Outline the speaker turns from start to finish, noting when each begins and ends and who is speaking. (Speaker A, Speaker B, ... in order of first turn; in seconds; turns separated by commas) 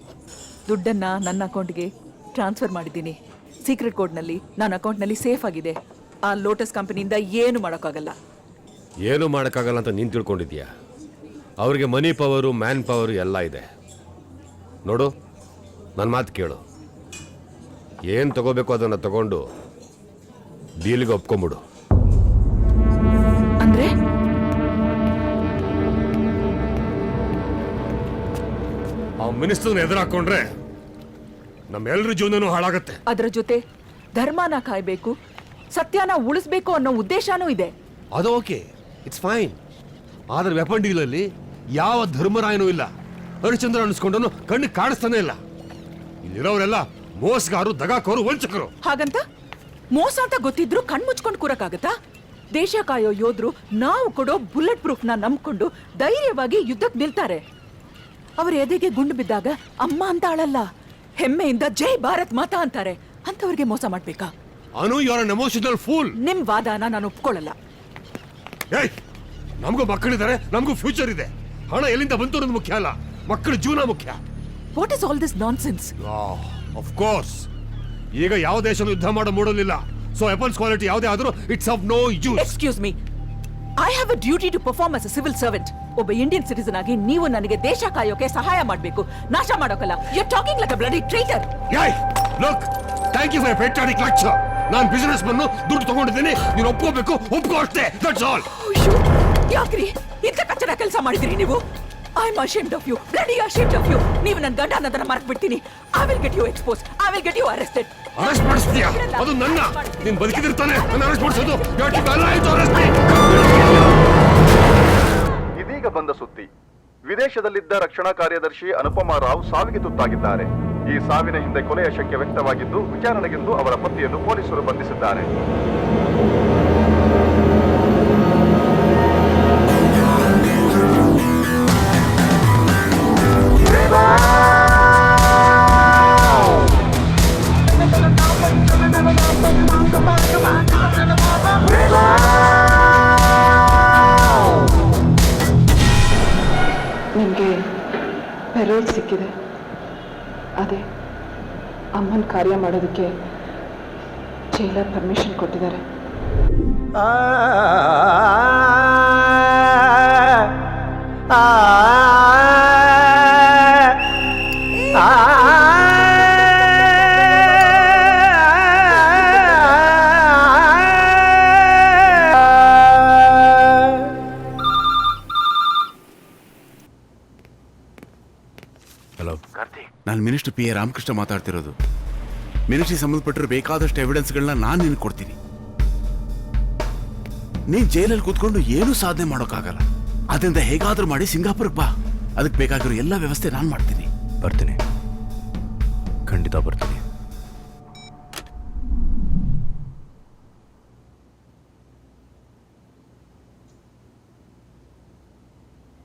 Speaker A: 0.7-8.2, Speaker B: 9.1-10.7, Speaker B: 11.6-13.7, Speaker B: 14.9-15.1, Speaker B: 16.0-16.6, Speaker B: 18.1-19.4, Speaker B: 20.9-21.6, Speaker A: 23.6-23.9, Speaker B: 29.2-30.5, Speaker B: 31.7-33.0, Speaker A: 33.1-33.6, Speaker A: 34.2-35.1, Speaker A: 35.7-37.7, Speaker B: 38.2-39.6, Speaker B: 40.3-41.3, Speaker B: 41.8-42.9, Speaker B: 43.4-45.4, Speaker B: 46.2-48.7, Speaker A: 48.8-49.2, Speaker A: 49.9-51.9, Speaker A: 52.5-57.4, Speaker A: 58.4-60.6, Speaker A: 61.2-64.3, Speaker B: 64.8-66.1, Speaker A: 66.2-67.5, Speaker B: 69.6-74.2, Speaker A: 74.7-75.9, Speaker B: 76.0-77.5, Speaker B: 78.1-82.5, Speaker A: 82.4-83.0, Speaker A: 83.8-91.5, Speaker B: 91.7-98.5, Speaker A: 98.5-101.6, Speaker A: 102.2-113.2, Speaker B: 108.2-113.2, Speaker C: 115.6-116.5, Speaker C: 117.1-125.3, Speaker D: 147.2-147.6, Speaker D: 148.5-149.3, Speaker D: 151.9-153.1, Speaker D: 154.5-155.8, Speaker E: 179.2-181.8, Speaker E: 182.7-185.4, Speaker E: 187.7-194.1